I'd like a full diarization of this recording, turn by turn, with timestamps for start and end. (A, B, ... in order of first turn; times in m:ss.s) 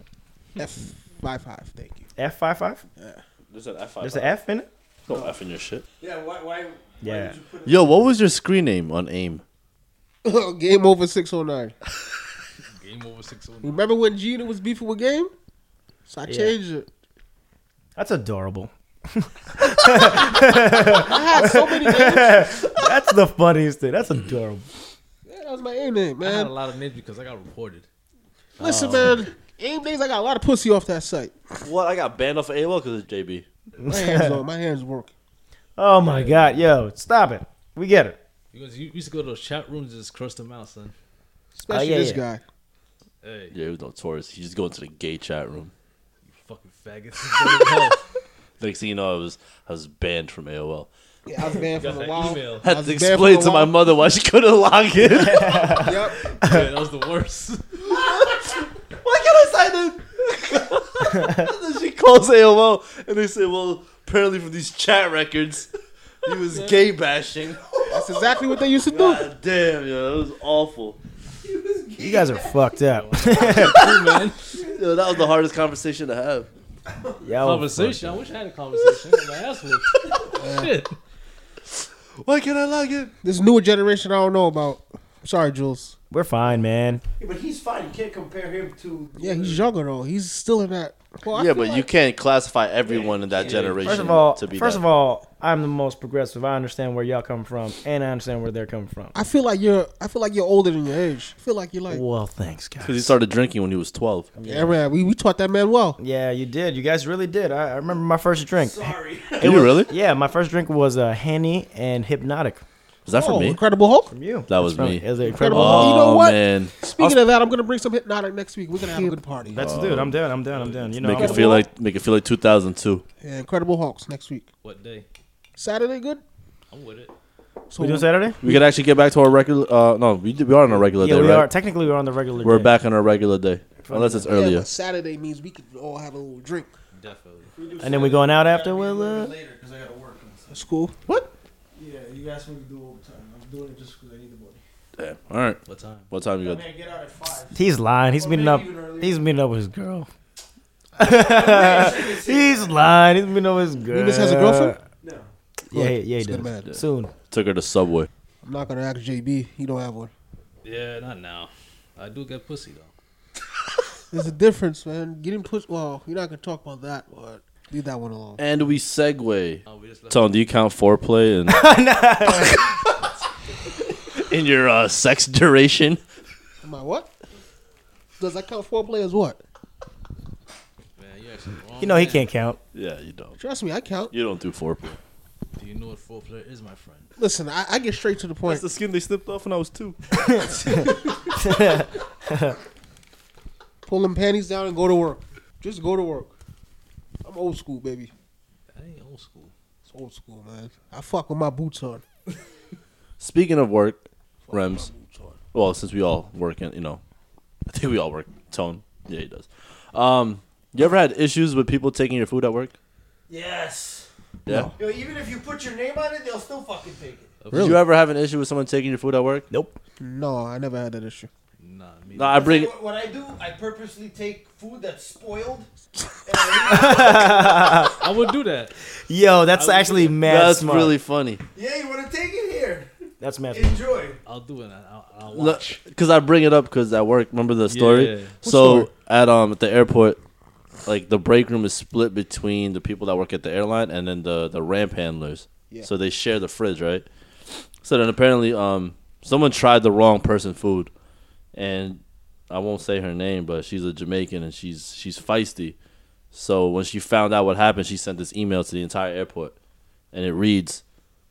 0:00.6-0:02.1 A
0:02.2-0:02.8 B
0:03.0-0:03.2 A
0:03.5-0:04.4 C
0:04.0-0:04.7 B
0:05.1-0:05.8 C
0:06.0-0:08.1 D
0:07.0-0:07.4 B
0:07.6-0:09.4 C
0:10.2-0:11.8 A
0:12.6-0:13.8 E
0:13.6-0:15.3 A
0:16.1-0:16.9 A
0:16.2-0:16.6 B
0:18.0-0:24.7 B
0:20.9-0:22.7 A
0:25.2-0:26.5 A
0:26.2-0:27.8 E
0:28.6-0:31.4 A
0:28.6-0:29.2 B
0:31.6-0:33.4 C
0:33.8-0:34.4 B
0:33.8-0:35.1 A
0:35.8-0:38.2 B
0:36.0-0:36.7 E
0:38.5-0:40.9 E
0:41.5-0:42.4 A
0:41.7-0:42.2 B
0:43.2-0:43.5 E
0:43.5-0:45.7 C
0:46.2-0:48.0 E
0:48.6-0:50.9 C
0:51.2-0:53.7 A
0:51.8-0:52.7 E
0:52.6-0:55.7 C
0:55.0-0:56.7 B
0:55.7-0:56.2 A
0:56.2-0:57.6 E
0:57.9-1:05.7 C
1:01.1-1:01.5 B
1:06.2-1:07.8 C
1:06.5-1:06.8 E
1:07.9-1:09.3 A
1:08.8-1:11.0 C
1:11.4-1:12.5 D
1:12.0-1:13.8 B
1:12.8-1:14.5 E
1:13.5-1:13.9 C
1:14.5-1:16.5 C
1:17.2-1:18.3 B
1:17.4-1:21.0 E
1:20.3-1:20.7 A
1:22.2-1:23.1 C
1:23.2-1:26.0 A
1:26.1-1:27.0 B
1:27.2-1:29.7 D
1:29.2-1:31.9 A
1:31.3-1:34.8 C
1:32.8-1:34.0 D
1:33.4-1:33.9 E
1:33.8-1:39.1 B
1:39.1-1:42.0 A
1:41.9-1:43.2 B
1:42.8-1:44.3 C
1:44.4-1:44.8 B
1:44.4-1:46.0 A
1:46.0-1:52.6 B
1:48.6-1:49.6 D
1:49.4-1:49.9 C
1:53.0-1:53.6 C
1:53.1-1:54.1 A
1:54.1-1:56.1 B
1:54.5-1:57.1 C
1:55.2-1:59.6 A
1:58.9-2:01.6 B
1:59.6-2:00.2 C
2:00.5-2:01.4 E
2:01.0-2:03.0 C
2:01.2-2:01.6 A
2:03.2-2:04.5 A
2:04.6-2:05.0 E
2:05.6-2:06.2 A
2:06.7-2:07.1 E
2:07.7-2:08.6 A
2:07.8-2:08.4 B
2:08.4-2:11.5 C
2:11.0-2:12.7 B
2:12.4-2:14.7 C
2:13.8-2:14.3 B
2:14.3-2:16.7 A
2:16.9-2:17.5 E
2:17.5-2:20.5 D
2:17.8-2:19.3 B
2:20.5-2:21.1 A
2:21.7-2:24.6 D
2:25.0-2:26.6 C
2:25.6-2:26.1 E
2:26.4-2:27.6 D
2:27.5-2:30.1 B
2:28.1-2:29.2 D
2:31.0-2:32.9 D
2:31.0-2:34.8 B
2:33.9-2:34.8 A
2:35.0-2:35.3 D
2:35.7-2:37.1 B
2:35.7-2:36.7 A
2:36.6-2:38.1 C
2:38.4-2:40.1 A
2:40.6-2:42.9 E
2:44.1-2:48.4 A
2:48.4-2:51.7 C
2:49.6-2:50.3 E
2:51.5-2:52.7 B
2:52.2-2:52.8 C
2:54.1-2:56.0 C
2:56.6-2:57.1 A
2:58.2-2:59.4 A
3:01.0-3:02.3 E
3:01.8-3:02.6 B
3:02.7-3:03.4 C
3:03.4-3:04.1 A
3:04.1-3:05.0 C
3:05.6-3:07.1 E
3:07.2-3:08.6 A
3:08.4-3:10.0 C
3:10.2-3:12.6 B
3:13.8-3:16.3 A
3:17.2-3:18.1 A
3:18.7-3:19.5 E
3:19.9-3:22.0 A
3:23.2-3:24.9 C
3:24.5-3:25.3 A
3:25.5-3:27.0 C
3:27.7-3:32.7 C
3:33.3-3:34.1 D
3:34.4-3:34.7 C
3:34.5-3:34.7 A
3:34.8-3:37.4 D
3:37.4-3:37.8 E
3:37.5-3:37.8 A
3:37.5-3:39.5 C
3:39.5-3:39.8 B
3:40.0-3:41.3 A
3:41.6-3:42.5 E
3:42.2-3:42.7 C
3:42.3-3:45.7 D
3:46.2-3:47.9 D
3:46.7-3:47.9 B
3:48.0-3:48.8 E
3:49.0-3:51.0 B
3:49.5-3:50.2 E
3:50.2-3:51.4 C
3:51.5-3:52.9 D
3:53.2-3:53.8 B
3:53.5-3:54.2 D
3:54.2-3:55.8 E
3:55.3-4:00.2 C
3:57.7-3:58.4 E
3:58.4-3:58.9 D
4:00.8-4:07.0 C
4:07.8-4:10.9 C
4:11.5-4:15.8 C
4:16.3-4:19.5 C
4:20.1-4:20.8 C